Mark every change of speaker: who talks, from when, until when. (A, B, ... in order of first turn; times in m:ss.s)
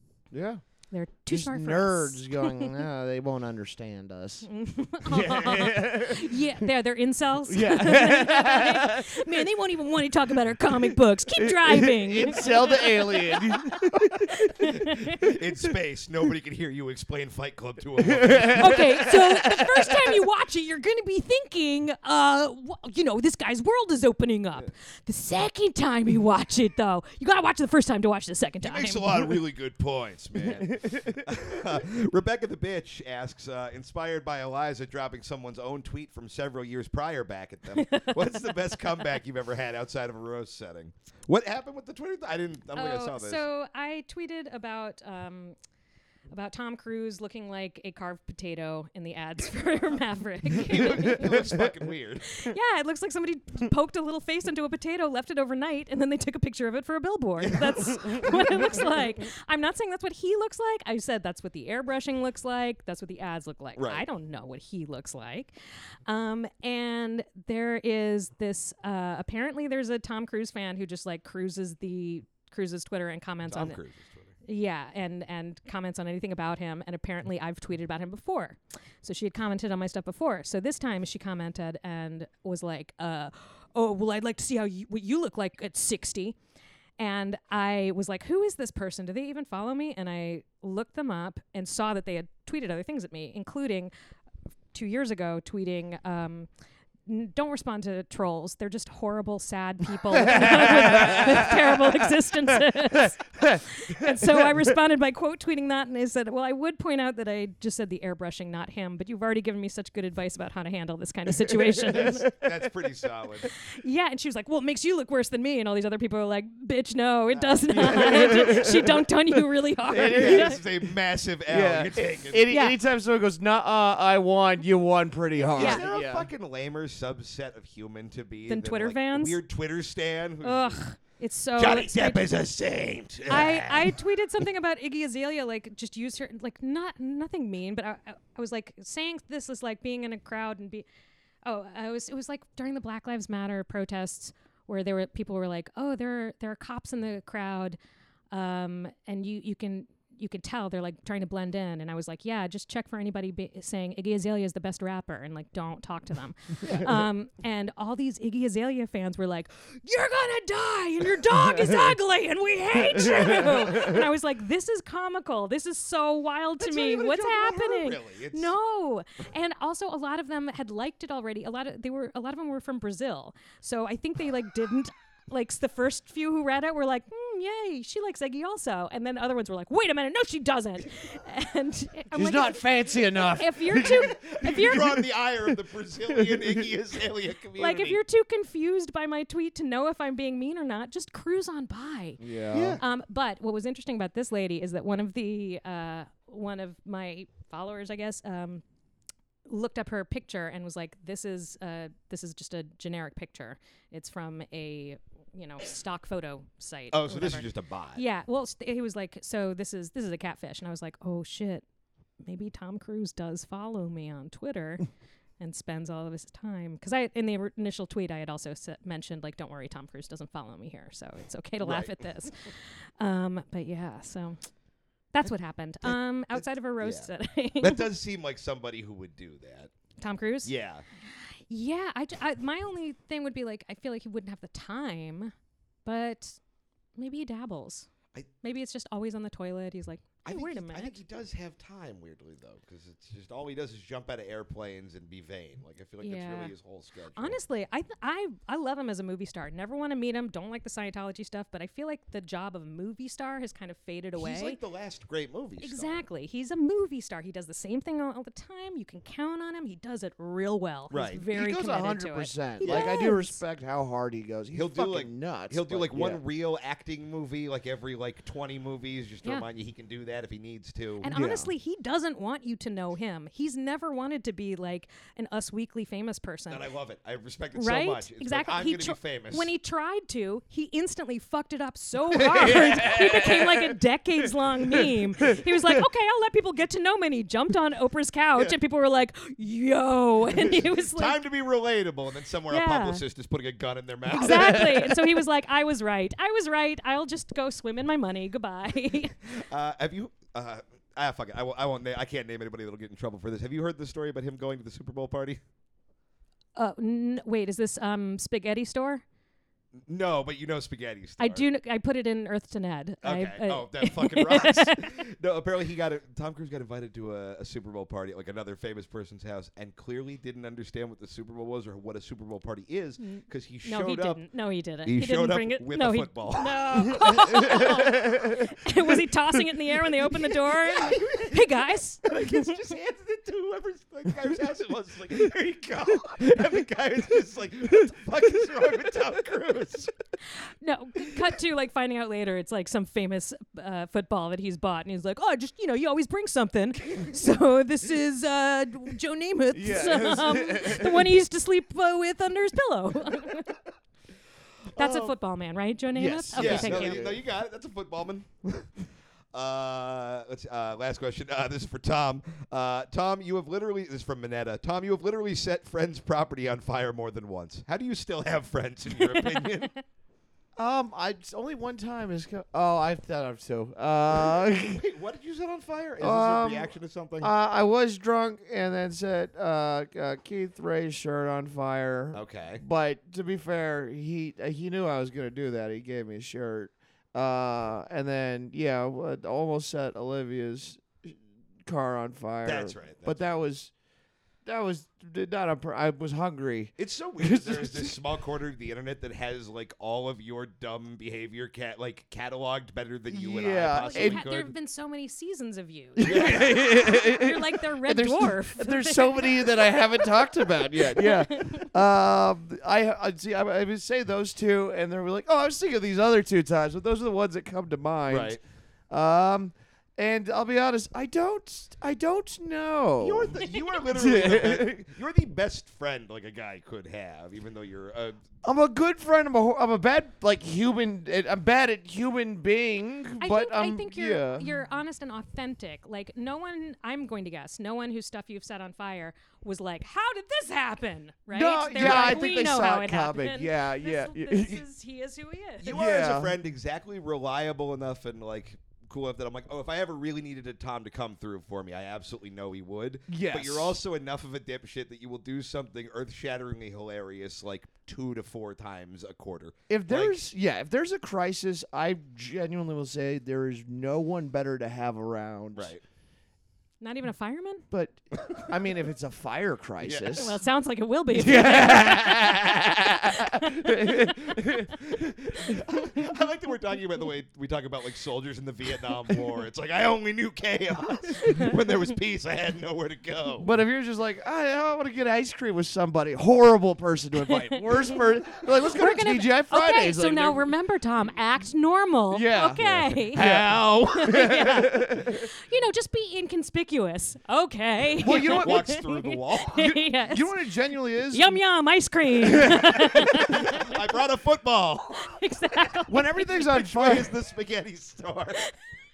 0:00.3-0:00.6 A
0:00.9-0:02.8 B
0:01.3-0:04.5 A
0:04.4-0:15.3 B
0:05.0-0:06.5 A
0:07.5-0:09.4 A
0:10.7-0:14.5 A
0:14.6-0:19.1 C
0:18.0-0:20.2 A
0:18.6-0:29.3 B
0:28.6-0:43.4 C
0:30.4-0:31.2 A
0:37.7-0:38.8 B
0:42.7-0:45.6 B
0:46.3-0:51.3 B
0:50.5-0:52.5 C
0:50.9-0:51.7 A
0:52.3-1:05.5 B
0:57.4-0:58.4 C
1:03.8-1:04.0 C
1:06.0-1:13.8 B
1:13.5-1:14.3 C
1:14.4-1:26.4 B
1:27.0-1:33.9 B
1:34.7-1:36.5 B
1:37.0-1:52.3 B
1:40.1-1:44.5 A
1:51.5-1:52.7 A
1:51.9-1:53.5 C
1:53.6-2:00.6 B
1:57.3-1:58.4 C
1:57.7-2:00.6 A
1:59.8-2:02.5 C
2:01.5-2:06.3 A
2:02.5-2:02.8 B
2:05.4-2:10.8 C
2:05.6-2:05.8 B
2:08.5-2:09.4 B
2:10.4-2:12.3 B
2:11.6-2:14.0 C
2:13.3-2:20.8 B
2:21.4-2:27.8 B
2:28.3-3:05.0 B
2:42.9-2:44.0 A
2:46.6-2:48.5 C
3:02.1-3:05.5 A
3:03.7-3:08.0 C
3:06.1-3:06.7 A
3:07.6-3:12.2 B
3:12.2-3:12.8 A
3:12.5-3:12.8 C
3:12.8-3:18.6 B
3:19.5-3:31.6 B
3:26.9-3:28.0 C
3:32.2-3:34.8 B
3:35.4-3:44.4 B
3:41.6-3:42.1 C
3:45.1-3:47.9 B
3:46.8-3:49.7 C
3:50.0-3:50.5 B
3:50.4-3:50.8 C
3:51.1-3:55.3 B
3:55.8-3:56.4 B
3:57.0-3:57.9 B
3:58.4-4:01.0 B
4:00.2-4:07.4 C
4:06.0-4:06.5 B
4:07.2-4:14.6 B
4:14.2-4:16.0 C
4:15.6-4:23.4 B
4:20.9-4:21.2 C
4:21.3-4:26.2 A
4:22.6-4:23.0 C
4:24.5-4:31.1 C
4:31.0-4:36.6 B
4:31.1-4:31.5 A
4:36.5-4:39.5 C
4:37.5-4:51.2 B
4:42.1-4:43.8 A
4:44.6-4:45.8 A
4:50.4-4:55.0 C
4:52.5-4:53.0 B
4:54.1-4:59.2 B
4:54.1-4:54.8 A
4:59.3-5:05.4 C
5:06.6-5:09.0 B
5:09.9-5:11.4 C
5:11.2-5:14.9 B
5:13.0-5:24.2 C
5:23.0-5:32.6 B
5:24.8-5:27.8 C
5:27.3-5:28.3 A
5:30.6-5:31.4 C
5:32.0-5:39.9 C
5:40.6-5:53.6 B
5:49.5-5:51.2 A
5:54.7-5:55.1 C
5:54.8-5:57.1 B
5:55.9-5:57.2 A
5:56.3-6:09.7 C
6:09.0-6:09.8 B
6:10.6-6:14.8 A
6:14.3-6:17.3 C
6:16.0-6:33.7 A
6:22.1-6:22.6 C
6:32.4-6:33.2 C
6:34.4-6:37.9 A
6:36.8-6:44.5 C
6:43.1-6:44.2 A
6:43.8-6:51.7 B
6:46.0-6:58.4 A
6:46.0-6:46.6 C
6:58.1-6:58.4 C
6:58.9-7:04.8 A
7:03.0-7:08.2 C
7:03.4-7:03.8 B
7:08.4-7:14.6 A
7:13.2-7:25.8 B
7:21.3-7:24.6 A
7:21.8-7:22.1 C
7:25.6-7:40.2 C
7:25.7-7:26.4 A
7:33.1-7:33.8 A
7:39.7-7:45.7 A
7:45.6-7:45.8 C
7:46.8-7:47.6 B
7:47.7-7:50.4 A
7:49.8-7:50.3 C
7:50.2-7:54.7 B
7:51.1-7:55.8 A
7:54.7-8:03.5 C
8:03.4-8:10.5 A
8:07.2-8:07.7 B
8:08.6-8:13.3 B
8:12.1-8:15.3 A
8:12.6-8:14.6 C
8:13.9-8:20.4 B
8:18.0-8:18.6 A
8:18.0-8:19.8 C
8:20.0-8:21.4 A
8:21.1-8:23.8 B
8:22.4-8:23.2 A
8:23.0-8:25.2 C
8:25.0-8:26.4 B
8:25.9-8:27.1 A
8:26.3-8:28.5 C